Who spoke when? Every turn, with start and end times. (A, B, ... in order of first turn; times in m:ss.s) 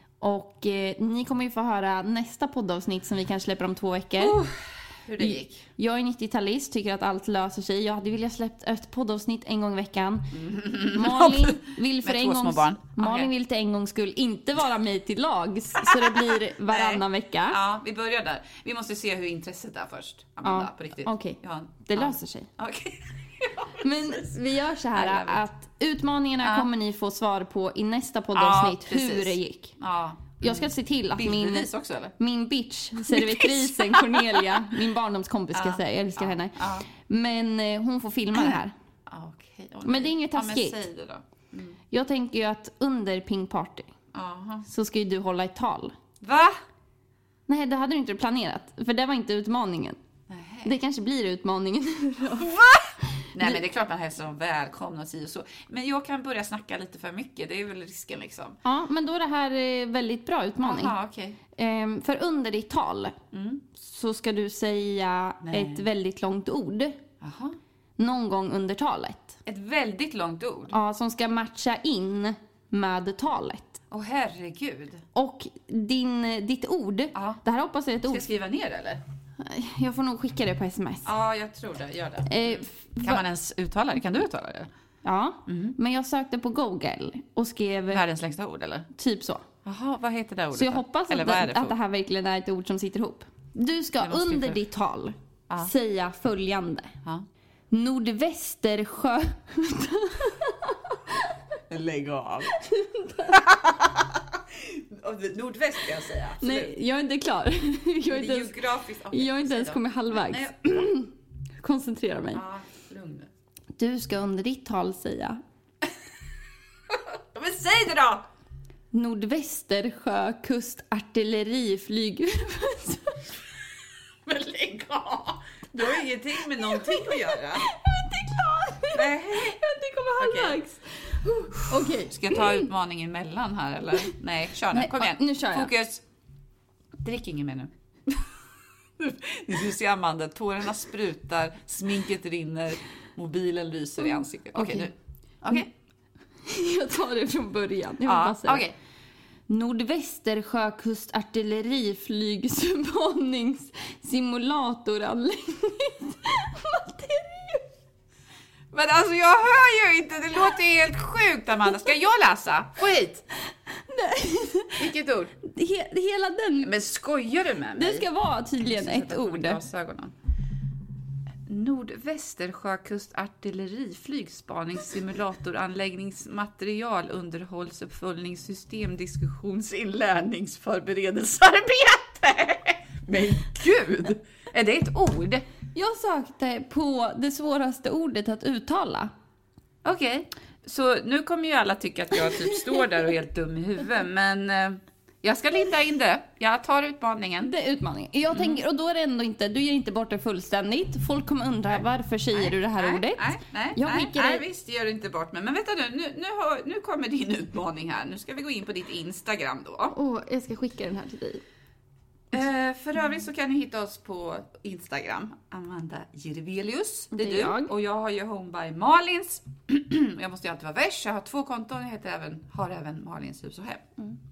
0:00.2-0:04.4 A
0:04.2-0:05.6 B
0:05.2-0:10.4 A
0:10.3-0:13.3 B
0:10.9-0:17.6 A
0:15.8-0:24.3 B
0:20.4-0:22.5 A
0:23.8-0:29.8 A
0:24.9-0:25.4 B
0:26.4-0:26.7 B
0:28.3-0:32.1 B
0:30.4-0:31.7 A
0:32.2-0:38.7 A
0:33.0-0:34.7 B
0:35.5-0:36.9 B
0:38.3-0:41.8 B
0:39.8-0:40.8 A
0:41.9-0:43.9 A
0:44.1-0:44.7 B
0:44.6-0:45.9 A
0:46.2-0:46.6 B
0:47.5-0:50.0 A
0:50.3-0:50.8 B
0:50.6-0:52.6 A
0:52.3-0:58.6 B
0:53.1-0:53.6 A
0:58.6-1:01.0 A
1:00.6-1:01.4 B
1:01.5-1:03.2 A
1:03.3-1:03.7 B
1:03.7-1:07.0 A
1:05.4-1:05.9 B
1:07.2-1:07.6 B
1:08.0-1:09.4 A
1:09.5-1:10.8 B
1:10.7-1:13.8 A
1:13.9-1:15.0 B
1:15.1-1:18.3 A
1:17.2-1:17.4 B
1:18.1-1:19.0 B
1:19.4-1:21.1 A
1:21.0-1:24.7 B
1:22.3-1:23.2 A
1:25.0-1:28.0 A
1:25.5-1:25.8 B
1:27.9-1:28.9 B
1:28.9-1:29.4 A
1:29.6-1:31.8 B
1:30.5-1:36.9 A
1:34.0-1:34.6 B
1:37.7-1:41.3 A
1:41.7-1:42.5 B
1:42.5-1:43.5 A
1:43.3-1:46.7 B
1:46.4-1:52.4 A
1:48.1-1:50.8 B
1:52.3-1:53.3 B
1:53.8-1:55.4 A
1:56.9-1:58.3 B
1:58.9-2:03.3 A
2:04.3-2:07.7 B
2:06.6-2:12.7 A
2:08.9-2:09.6 B
2:10.2-2:10.6 B
2:11.6-2:16.0 B
2:14.7-2:15.7 A
2:17.0-2:18.3 B
2:19.0-2:25.7 B
2:24.0-2:24.9 A
2:26.4-2:28.6 A
2:28.0-2:28.8 B
2:29.5-2:37.6 A
2:38.7-2:43.2 B
2:43.7-2:44.8 A
2:44.8-2:45.4 B
2:45.4-2:46.7 A
2:46.6-2:48.1 B
2:47.7-2:49.6 A
2:48.6-2:50.1 B
2:51.5-3:05.4 B
3:05.7-3:09.1 A
3:09.8-3:17.5 B
3:17.4-3:24.4 A
3:18.3-3:18.6 B
3:22.3-3:30.0 B
3:29.9-3:31.4 A
3:32.3-3:43.8 B
3:37.1-3:37.7 A